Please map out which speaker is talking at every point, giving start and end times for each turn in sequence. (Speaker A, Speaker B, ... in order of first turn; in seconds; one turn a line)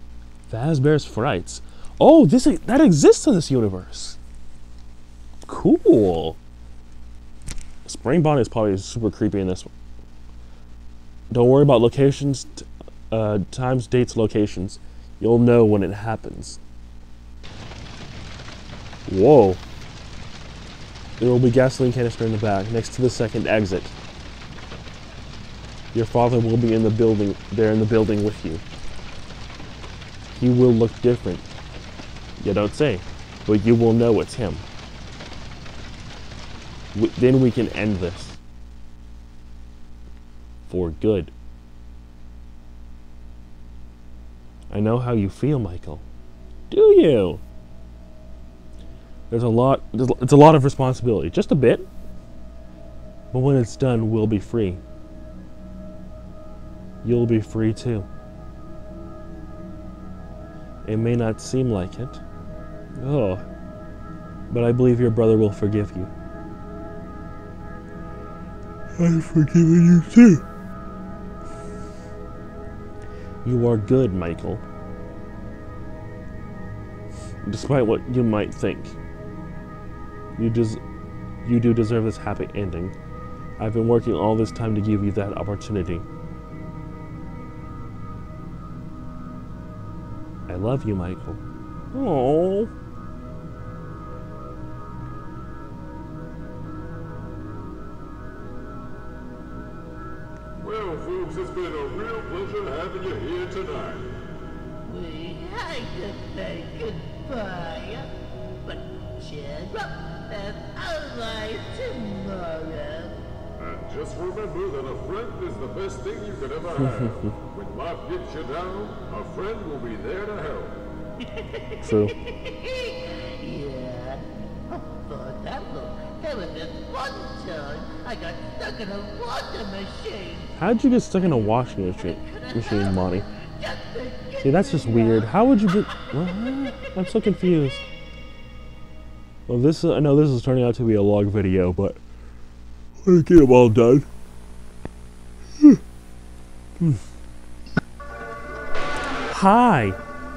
Speaker A: 0.5-4.2
Speaker A: 5.5-6.4
Speaker A: 7.8-9.7
Speaker A: 11.3-16.6
Speaker A: 19.1-19.6
Speaker A: 21.2-23.9
Speaker A: 25.9-28.6
Speaker A: 30.4-31.5
Speaker A: 32.4-34.6
Speaker A: 36.9-38.4
Speaker A: 40.7-41.3
Speaker A: 44.7-46.0
Speaker A: 46.7-47.4
Speaker A: 49.3-51.9
Speaker A: 53.3-54.8
Speaker A: 57.0-58.1
Speaker A: 60.9-62.2
Speaker A: 63.0-63.4
Speaker A: 64.5-66.1
Speaker A: 69.0-70.4
Speaker A: 73.5-74.6
Speaker A: 77.5-79.0
Speaker A: 80.4-80.8
Speaker A: 81.4-83.0
Speaker A: 83.6-86.0
Speaker A: 90.5-91.4
Speaker A: 91.9-92.7
Speaker B: 100.6-104.2
Speaker C: 104.8-108.1
Speaker C: 108.6-113.2
Speaker B: 113.6-120.8
Speaker A: 116.8-117.3
Speaker C: 121.2-130.5
Speaker A: 121.8-122.1
Speaker A: 130.6-133.2
Speaker C: 132.1-136.7
Speaker A: 134.4-137.8
Speaker A: 139.5-142.0
Speaker A: 143.1-144.1
Speaker A: 149.3-150.0